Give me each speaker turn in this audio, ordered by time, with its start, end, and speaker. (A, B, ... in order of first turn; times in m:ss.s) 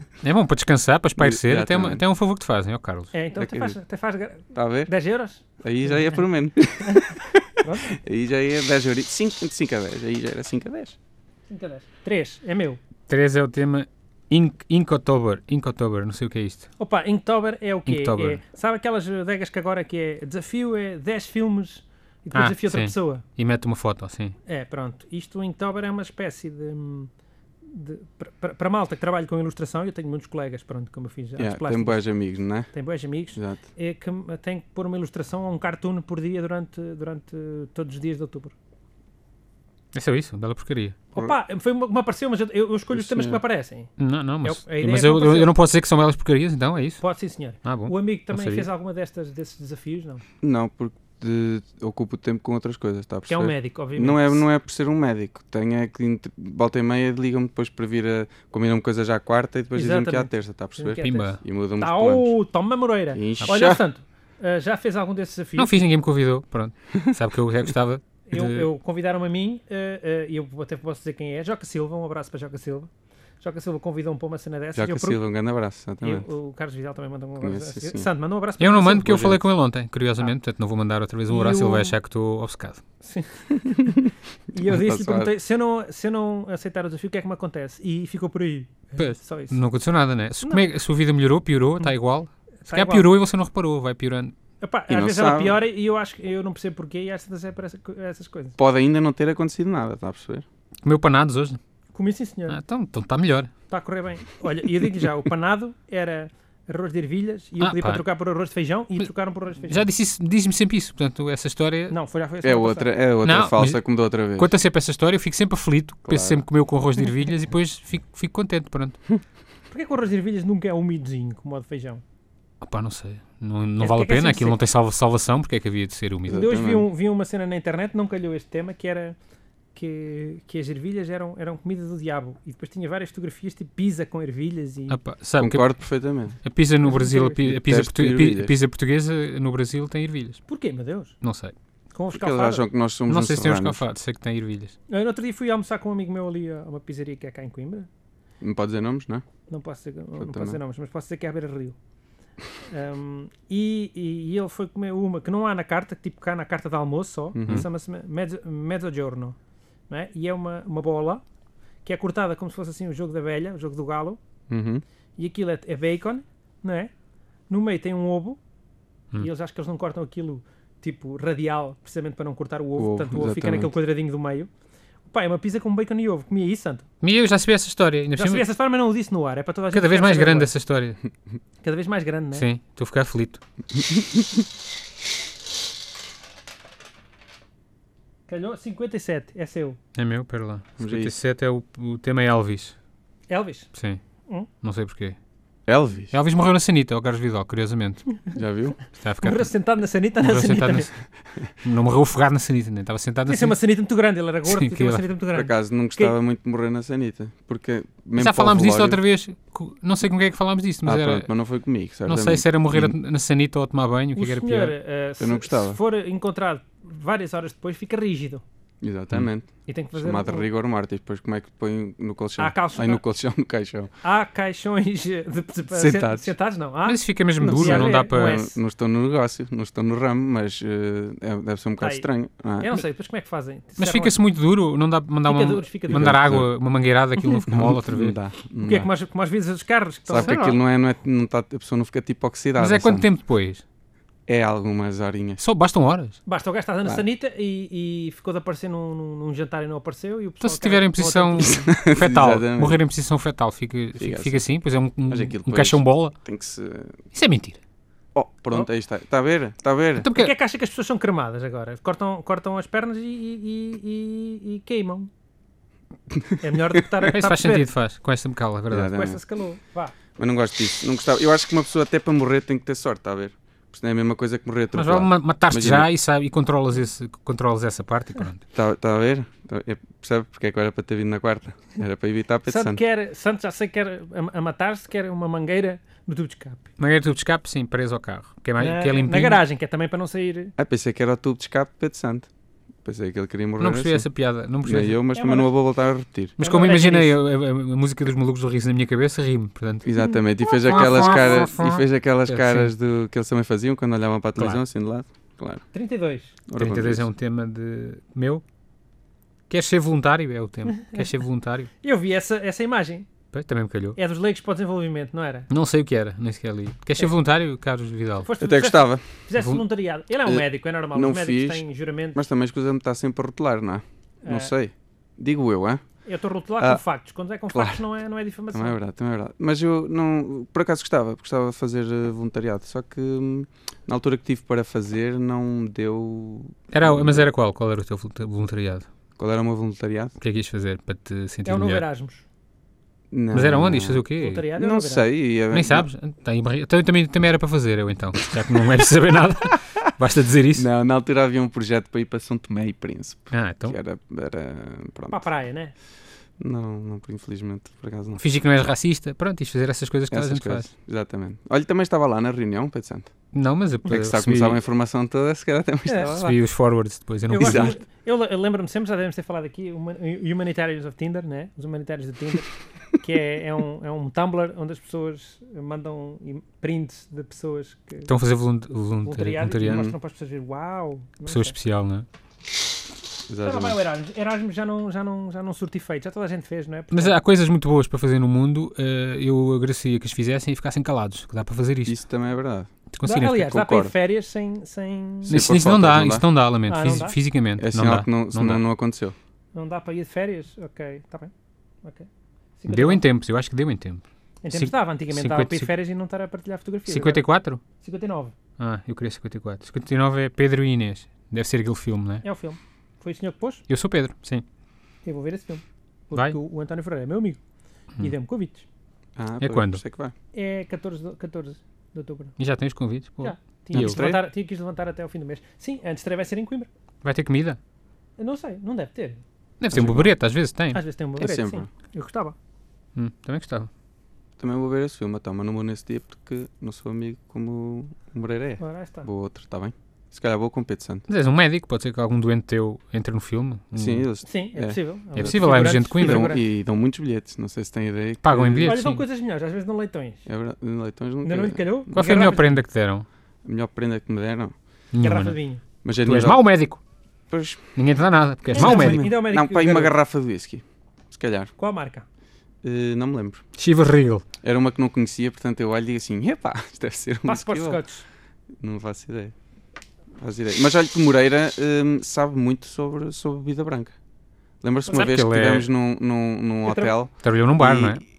0:00.2-0:03.1 A
0:01.2-0:02.0 B
0:03.1-0:06.2 C
0:03.4-0:03.8 B
0:04.5-0:04.9 B
0:05.6-0:11.0 B
0:06.8-0:07.1 C
0:07.6-0:08.0 C
0:11.5-0:12.8 C
0:13.1-0:16.7 A
0:16.8-0:23.2 C
0:17.9-0:18.4 A
0:22.3-0:24.4 A
0:24.5-0:27.1 C
0:27.7-0:32.1 C
0:31.4-0:32.7 B
0:32.7-0:38.5 C
0:33.4-0:33.6 B
0:39.9-0:41.0 A
0:41.1-0:43.9 C
0:42.9-0:43.4 B
0:44.0-0:47.0 A
0:44.4-0:45.5 C
0:47.0-0:50.2 C
0:47.6-0:48.7 A
0:50.4-1:02.3 B
0:53.3-0:54.4 C
0:59.7-1:05.8 C
1:01.0-1:01.4 A
1:03.1-1:03.8 B
1:05.6-1:08.7 A
1:08.3-1:12.9 C
1:13.4-1:15.2 C
1:14.8-1:16.3 B
1:16.0-1:19.3 C
1:17.4-1:18.1 B
1:18.6-1:22.8 A
1:19.0-1:19.4 B
1:21.3-1:22.0 C
1:23.0-1:29.6 C
1:24.6-1:25.3 B
1:29.0-1:34.3 A
1:32.6-1:33.1 C
1:34.6-1:38.6 C
1:34.9-1:35.6 B
1:38.6-1:40.5 B
1:40.8-1:41.6 A
1:41.9-1:42.6 C
1:42.5-1:43.5 A
1:43.7-1:49.8 C
1:47.6-1:48.0 A
1:49.6-1:52.0 A
1:51.9-1:52.9 C
1:52.4-1:54.5 B
1:53.2-1:53.8 A
1:54.3-1:59.0 A
1:56.0-1:56.4 B
1:59.7-2:02.0 C
2:02.6-2:06.4 A
2:03.8-2:04.6 C
2:06.3-2:06.9 B
2:06.3-2:09.2 C
2:09.8-2:15.0 C
2:14.9-2:15.7 A
2:15.4-2:16.4 B
2:16.4-2:20.4 A
2:16.9-2:17.4 C
2:17.4-2:18.6 B
2:20.5-2:21.2 C
2:21.2-2:21.5 A
2:21.9-2:22.7 C
2:22.1-2:23.8 B
2:23.1-2:24.8 A
2:24.9-2:27.9 C
2:28.4-2:29.2 B
2:29.5-2:31.8 C
2:30.2-2:30.6 B
2:32.6-2:39.4 C
2:37.3-2:37.7 B
2:39.9-2:41.2 C
2:41.8-2:44.2 C
2:44.5-2:44.8 B
2:45.2-2:46.9 C
2:47.5-2:48.4 C
2:49.2-2:54.5 C
2:52.8-2:53.7 B
2:55.1-2:56.9 C
2:57.0-2:58.4 A
2:58.2-3:00.5 C
2:59.7-3:01.0 A
3:01.6-3:02.5 C
3:02.3-3:03.4 A
3:03.9-3:04.2 B
3:08.3-3:09.8 C
3:10.0-3:12.8 A
3:10.8-3:11.1 B
3:13.3-3:13.7 C
3:13.8-3:14.0 A
3:14.6-3:15.2 A
3:15.7-3:16.1 B
3:16.1-3:18.1 A
3:18.3-3:18.8 B
3:19.0-3:19.5 A
3:19.2-3:20.9 C
3:20.2-3:21.0 A
3:21.6-3:23.6 A
3:23.3-3:26.2 C
3:24.5-3:25.0 A
3:25.3-3:29.0 B
3:28.2-3:31.3 A
3:30.8-3:33.0 B
3:32.1-3:34.8 A
3:34.2-3:38.4 C
3:35.2-3:35.8 B
3:38.8-3:43.9 B
3:39.7-3:40.5 C
3:42.4-3:43.0 C
3:44.0-3:48.6 C
3:45.7-3:46.3 B
3:46.9-3:48.4 A
3:47.4-3:52.8 B
3:51.8-3:52.1 C
3:52.6-3:54.2 C
3:53.8-3:58.2 A
3:55.2-3:56.2 C
3:55.9-3:56.5 B
3:57.5-3:58.9 B
3:58.6-4:00.4 C
4:00.1-4:03.1 B
4:00.2-4:00.6 A
4:02.6-4:03.6 A
4:04.3-4:05.4 B
4:05.4-4:06.2 A
4:06.3-4:11.7 C
4:10.4-4:16.1 A
4:11.4-4:12.8 B
4:14.0-4:14.5 B
4:15.1-4:17.0 B
4:17.1-4:17.6 A
4:18.2-4:20.1 B
4:20.0-4:20.3 A
4:20.2-4:25.1 C
4:26.4-4:27.7 C
4:27.1-4:29.0 A
4:28.7-4:29.2 B
4:28.9-4:30.0 C
4:30.2-4:35.9 B
4:34.7-4:38.4 A
4:38.5-4:42.8 B
4:42.5-4:46.7 C
4:46.8-4:49.4 A
4:48.6-4:50.5 C
4:50.6-4:52.3 B
4:52.8-4:54.1 B
4:53.6-4:55.0 A
4:54.6-4:56.4 B
4:55.1-4:55.5 C
4:56.4-4:57.2 C
4:56.4-4:59.9 A
4:59.8-5:05.6 B
5:00.5-5:02.7 A
5:04.4-5:04.6 A
5:05.7-5:06.4 C
5:06.5-5:07.0 B
5:06.6-5:08.4 A
5:09.5-5:11.7 A
5:10.8-5:11.0 C
5:11.8-5:13.1 C
5:13.3-5:14.0 A
5:14.0-5:15.5 C
5:15.5-5:18.3 A
5:18.2-5:22.2 C
5:18.4-5:19.0 B
5:19.4-5:19.6 A
5:20.3-5:25.8 B
5:24.2-5:24.5 C
5:26.0-5:28.8 C
5:27.5-5:27.8 B
5:28.5-5:37.3 B
5:36.7-5:38.9 A
5:39.2-5:40.2 B
5:40.2-5:41.8 A
5:41.4-5:42.2 C
5:43.1-5:45.9 B
5:43.3-5:44.5 A
5:44.2-5:45.1 C
5:45.5-5:50.7 A
5:50.6-5:55.2 B
5:53.3-5:53.8 A
5:55.1-5:55.7 C
5:56.4-5:58.2 B
5:58.2-6:00.7 A
6:00.1-6:03.1 B
6:03.3-6:04.6 A
6:03.9-6:06.4 B
6:05.9-6:06.2 C
6:06.0-6:07.7 A
6:07.3-6:18.1 C
6:07.4-6:07.8 B
6:18.1-6:19.9 A
6:19.0-6:21.6 C
6:19.6-6:20.0 B
6:21.3-6:22.1 A
6:23.3-6:23.8 B
6:23.4-6:27.2 C
6:26.9-6:32.0 A
6:31.8-6:32.7 B
6:32.9-6:33.5 A
6:33.0-6:35.4 C
6:33.4-6:33.9 B
6:35.3-6:36.2 B
6:35.3-6:38.6 A
6:36.7-6:37.2 C
6:37.6-6:39.2 B
6:39.6-6:41.3 C
6:41.8-6:42.1 C
6:42.6-6:43.0 C
6:42.7-6:45.7 A
6:44.4-6:47.2 C
6:46.9-6:47.6 A
6:47.8-6:48.4 C
6:48.6-6:52.2 A
6:52.2-6:53.6 C
6:53.7-6:54.4 A
6:55.0-6:57.4 C
6:58.0-6:58.7 C
6:59.2-7:00.1 B
6:59.4-6:59.8 A
7:00.3-7:02.3 C
7:02.4-7:04.0 A
7:03.2-7:06.7 C
7:03.7-7:04.2 B
7:07.0-7:07.6 A
7:08.2-7:09.2 C
7:09.6-7:10.8 A
7:09.7-7:10.1 B
7:10.7-7:12.4 C
7:11.2-7:11.7 B
7:13.0-7:13.7 A
7:14.4-7:21.0 B
7:18.6-7:19.1 C
7:21.1-7:24.0 A
7:23.8-7:28.8 B
7:24.2-7:26.4 C
7:25.2-7:26.4 A
7:28.2-7:29.0 A
7:28.6-7:30.3 C
7:30.3-7:31.7 B
7:31.2-7:32.6 C
7:31.9-7:33.1 A
7:33.4-7:34.5 B
7:34.9-7:35.4 A
7:35.0-7:35.6 C
7:35.8-7:36.4 B
7:36.0-7:36.8 A
7:37.3-7:37.6 B
7:37.8-7:39.1 A
7:38.5-7:41.5 B
7:38.6-7:40.0 C
7:41.6-7:42.0 C
7:42.6-7:43.4 B
7:43.6-7:44.2 A
7:44.4-7:47.8 B
7:47.3-7:48.0 C
7:48.6-7:49.4 B
7:50.2-7:53.9 B
7:54.6-7:58.0 B
7:54.9-7:55.7 A
7:56.6-7:56.9 C
7:57.2-7:58.0 A